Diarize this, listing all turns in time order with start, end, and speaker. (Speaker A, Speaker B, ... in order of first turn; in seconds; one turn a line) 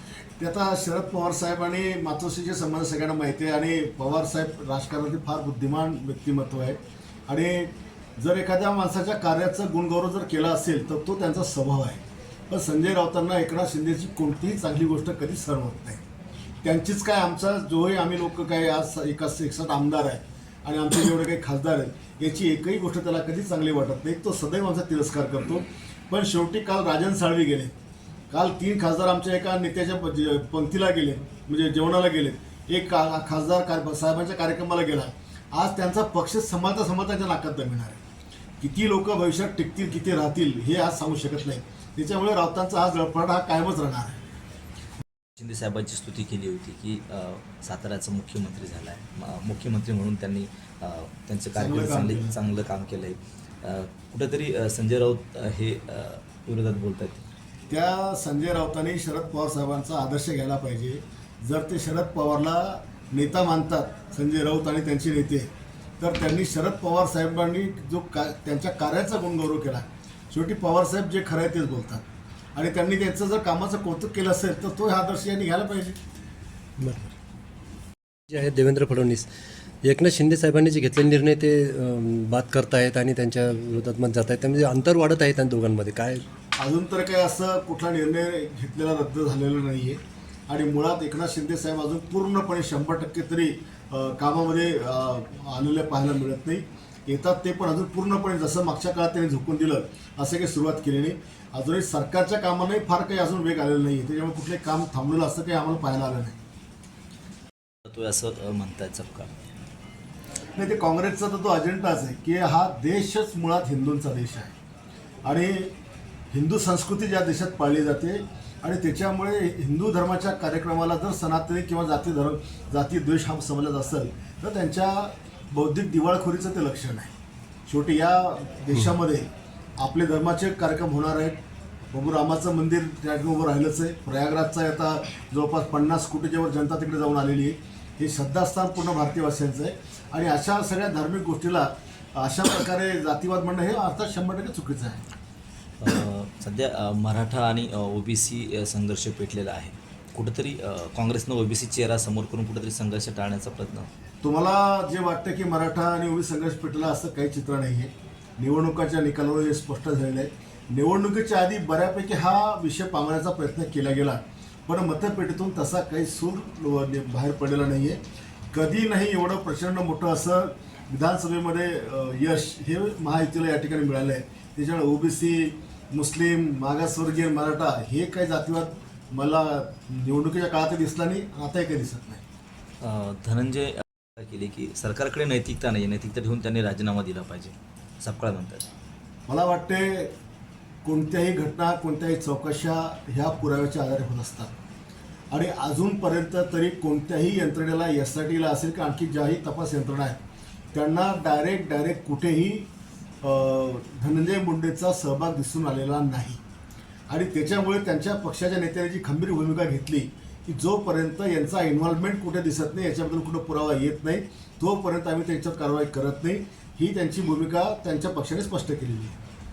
Speaker A: 0.4-16.0
Speaker A: 16.6-27.7
Speaker A: 28.3-38.0
Speaker A: 38.6-44.2
Speaker B: 45.4-57.2
Speaker A: 51.5-52.4
Speaker A: 57.7-76.0
Speaker C: 76.8-77.1
Speaker C: 78.3-79.3
Speaker C: 79.8-86.2
Speaker A: 86.6-106.4
Speaker B: 107.8-109.3
Speaker A: 110.5-114.5
Speaker A: 115.2-115.7
Speaker A: 116.3-127.1
Speaker A: 127.7-129.3
Speaker A: 129.8-131.4
Speaker A: 131.9-145.0
Speaker B: 145.8-153.9
Speaker A: 154.2-168.0
Speaker A: 168.5-182.2
Speaker B: 182.8-188.7
Speaker A: 189.3-190.1
Speaker A: 190.8-194.5
Speaker A: 195.3-200.2
Speaker A: 200.7-202.7
Speaker A: 203.2-206.4
Speaker A: 207.1-219.2